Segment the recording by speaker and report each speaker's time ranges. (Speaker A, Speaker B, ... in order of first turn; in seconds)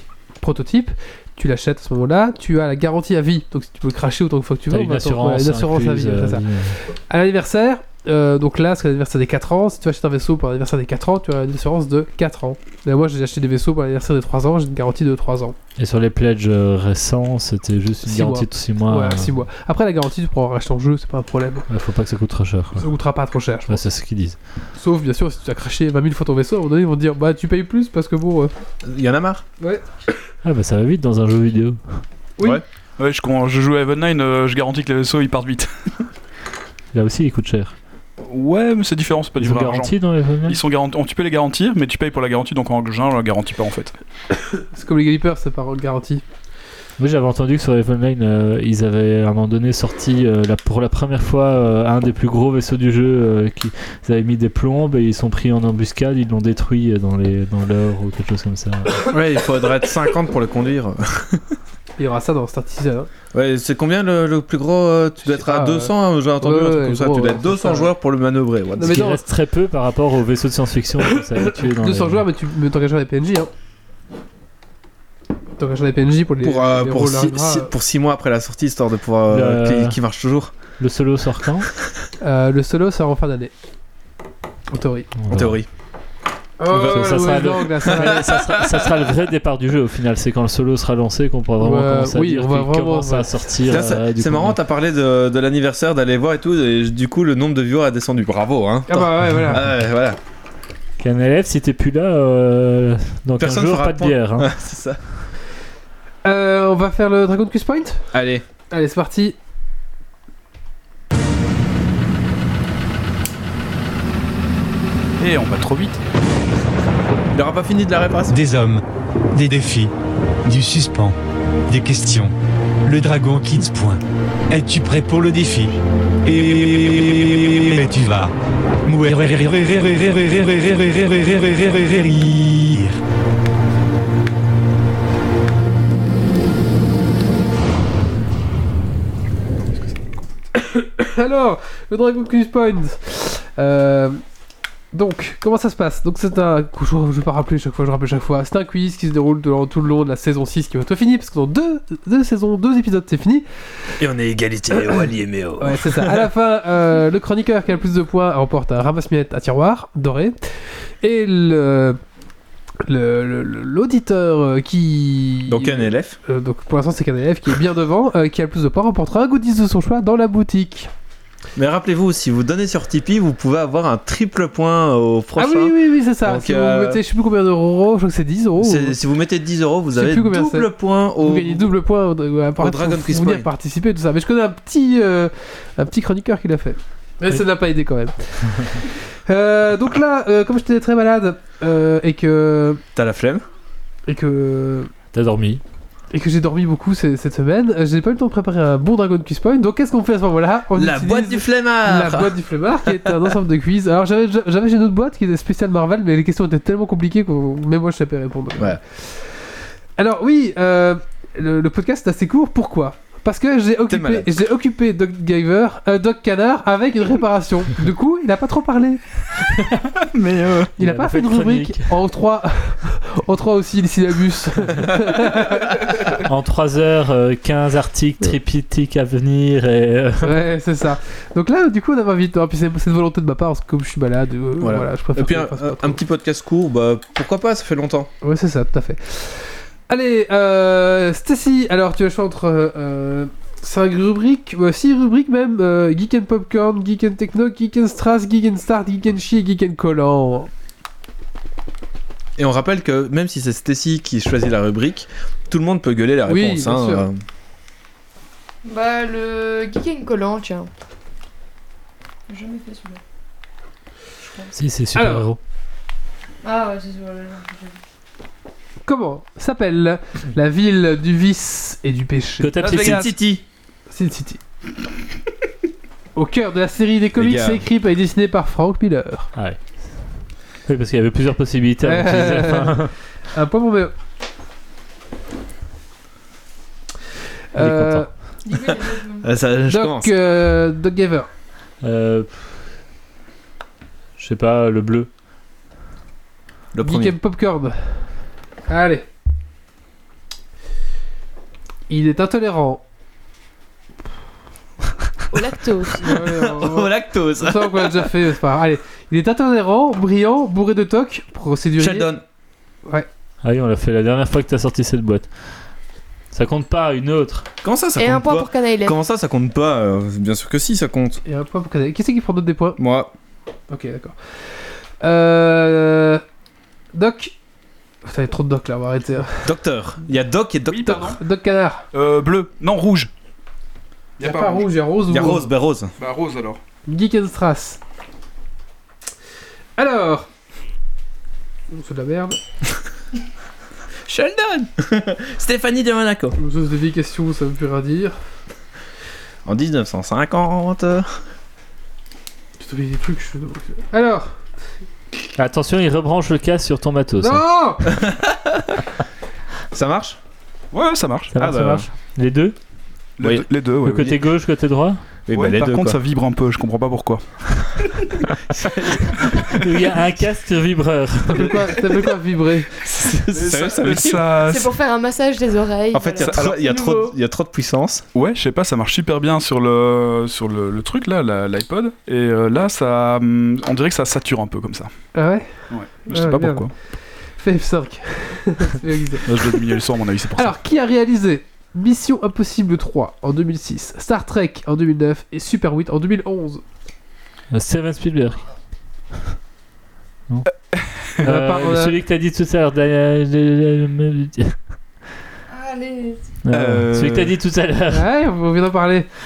Speaker A: 0.4-15.6, 18.0-21.7, 22.8-23.9, 24.8-28.5, 29.6-29.9, 44.4-46.2, 62.0-63.1, 65.2-67.9, 68.8-69.2, 71.2-73.5, 75.6-77.7, 82.2-83.5, 84.7-85.1, 86.6-88.3, 91.6-93.8, 98.9-99.6, 106.2-108.1, 108.7-109.4, 140.5-144.2, 144.9-153.4, 155.6-162.0, 162.8-170.9, 175.4-179.0, 179.9-192.8, 194.1-194.9, 196.1-209.3, 210.0-219.0, 220.8-225.8, 230.2-236.0, 238.2-250.5, 256.3-257.1, 264.9-265.3, 268.9-272.6, 273.9-274.4, 276.1-279.3, 281.8-283.9, 287.5-288.1, 289.7-291.3, 296.8-298.0, 298.7-299.1, 301.9-302.8, 306.0-312.1, 321.3-322.8, 323.7-326.2, 326.9-327.3, 328.1-329.5, 330.8-331.9, 334.2-335.5, 336.9-337.8, 339.8-340.3, 341.7-342.4, 346.4-348.2, 352.6-354.4, 357.2-357.9, 371.3-372.7, 385.1-389.6, 390.4-396.6, 401.2-402.0, 407.9-409.1
Speaker B: 4.7-6.8, 15.8-19.5, 21.7-22.9, 23.7-24.4, 30.4-32.0, 36.9-37.7, 39.4-40.6, 47.0-59.1, 68.8-72.3, 79.3-80.0, 80.8-81.7, 85.2-85.6, 86.7-94.6, 101.0-104.5, 195.1-195.6, 220.8-222.0, 226.2-230.4, 264.6-265.4, 272.4-273.1, 279.4-280.1, 280.7-282.9, 287.6-288.1, 291.8-292.5, 294.2-295.1, 313.4-315.3, 316.3-317.5, 355.4-357.4, 361.3-362.6, 363.8-365.0, 369.3-371.5, 397.5-398.5, 401.2-404.6, 406.4-408.1
Speaker C: 28.8-29.4, 59.1-61.5, 63.3-69.0, 76.4-80.5, 85.3-85.7, 86.7-87.0, 87.9-88.9, 93.6-100.2, 103.4-105.0, 108.1-108.5, 117.3-118.4, 154.0-156.3, 165.5-166.2, 171.6-177.0, 178.6-181.7, 182.6-183.5, 192.9-193.4, 200.8-203.3, 213.9-214.3, 234.6-238.1, 252.4-257.2, 272.6-273.4, 277.2-277.6, 288.5-290.2, 296.7-297.2, 306.1-308.1, 311.8-312.2, 317.6-321.2, 322.8-323.1, 329.4-331.1, 335.1-335.9, 344.1-346.4, 349.4-351.2, 357.9-358.8, 359.7-360.2, 361.4-361.9, 363.2-363.5, 365.3-366.0, 368.5-369.3, 372.8-374.3, 375.9-378.1
Speaker D: 33.0-35.7, 38.2-44.0, 115.2-116.0, 220.0-220.7, 272.6-273.1, 330.7-331.2, 331.9-333.1, 334.2-334.7, 336.0-336.6, 360.7-361.3, 363.2-364.2, 365.3-368.2, 373.3-374.7, 376.2-376.6, 378.1-384.9, 385.7-386.7, 389.2-390.6, 400.7-401.1, 406.5-407.3
Speaker E: 118.3-118.8, 119.3-119.9, 120.4-121.2, 121.7-128.3, 128.9-133.0
Speaker F: 258.6-260.7, 262.3-263.0, 264.2-264.5, 266.4-267.8, 288.4-289.3, 305.3-306.1, 318.0-319.0, 374.5-377.1, 405.5-406.3